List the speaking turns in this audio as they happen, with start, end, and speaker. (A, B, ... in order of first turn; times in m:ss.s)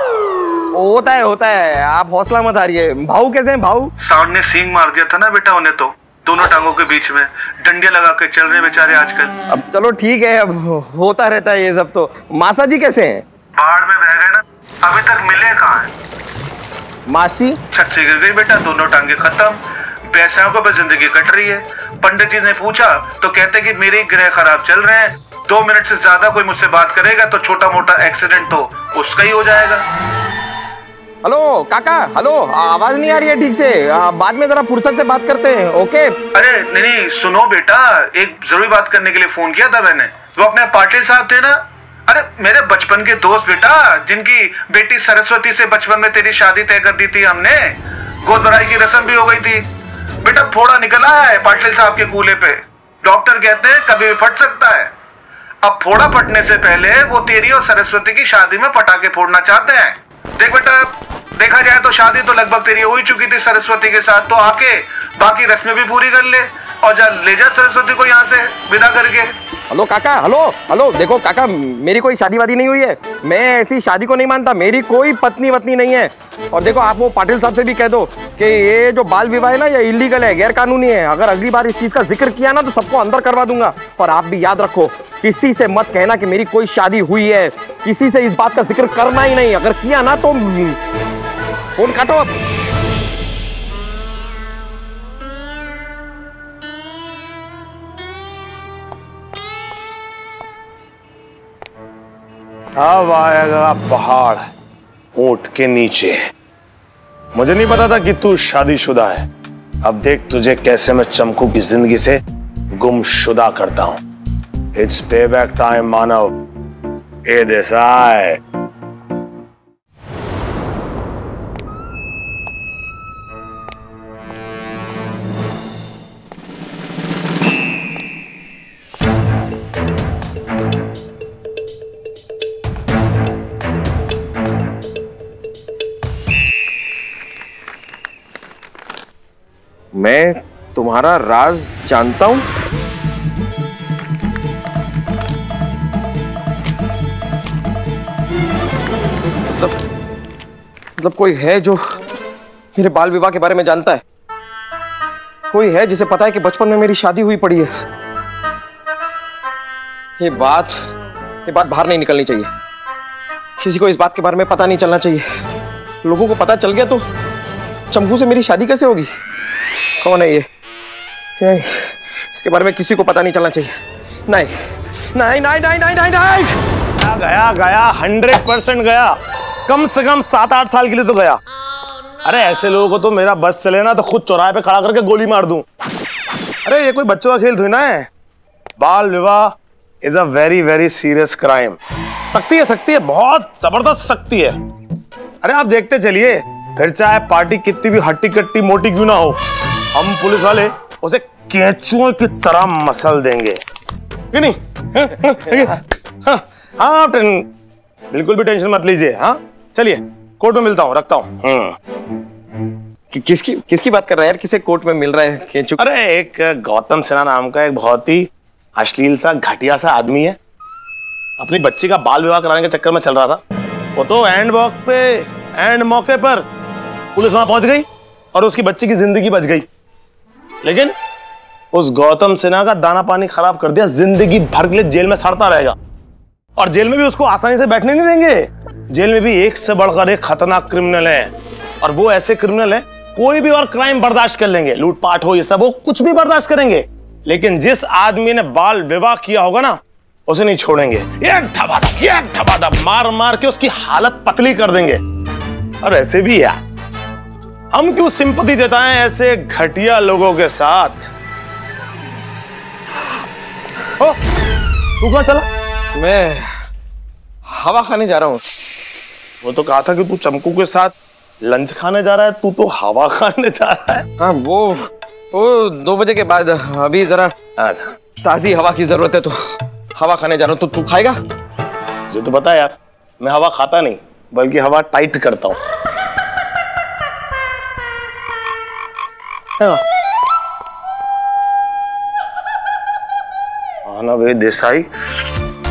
0:00.8-0:03.9 A
0:04.0-0:09.3 B
0:09.5-0:13.2 A
0:13.6-0:15.9 B
0:17.1-0:17.6 A
0:17.7-0:19.6 B
0:20.1-0:29.8 B
0:31.2-0:36.1 A
0:36.3-0:49.7 B
0:50.2-0:54.9 B
0:55.6-1:09.3 B
1:09.7-1:30.8 A
1:31.8-1:32.3 A
1:42.8-1:44.4 C
1:45.2-1:46.2 C
1:47.3-1:49.3 C
1:49.8-1:52.2 C
1:52.8-1:54.0 C
1:54.8-1:56.3 C
1:57.3-1:58.4 C
2:19.9-2:22.4 A
2:31.0-2:31.8 A
2:32.8-2:34.0 A
2:35.5-2:37.7 A
2:40.2-2:40.8 A
2:41.5-2:42.5 A
2:43.6-2:45.2 A
2:46.0-2:47.0 A
2:47.9-2:49.1 A
2:50.0-2:50.4 A
2:51.4-2:53.7 A
2:54.3-2:56.5 A
2:57.0-2:59.2 C
2:59.7-3:01.4 C
3:02.2-3:05.6 C
3:06.6-3:08.1 C
3:08.8-3:11.8 C
3:12.3-3:14.6 C
3:15.4-3:19.4 C
3:19.9-3:23.6 C
3:24.3-3:27.4 C
3:28.1-3:31.8 C
3:33.1-3:35.8 A
3:35.8-3:40.4 C
3:41.4-3:43.4 C
3:44.0-3:46.5 C
3:47.2-3:49.7 C
3:50.6-3:50.9 C
3:51.7-3:55.8 C
3:56.6-4:15.0 C
4:15.8-4:16.6 C
4:17.7-4:21.1 C
4:25.0-4:25.5 C
4:26.0-4:26.4 A
4:27.5-4:28.4 A
4:29.4-4:30.9 C
4:31.4-4:34.0 C
4:34.2-4:34.8 A
4:35.3-4:37.3 A
4:37.6-4:37.9 C
4:38.2-4:39.4 A
4:40.0-4:41.2 A
4:42.1-4:45.6 C
4:53.9-4:54.9 C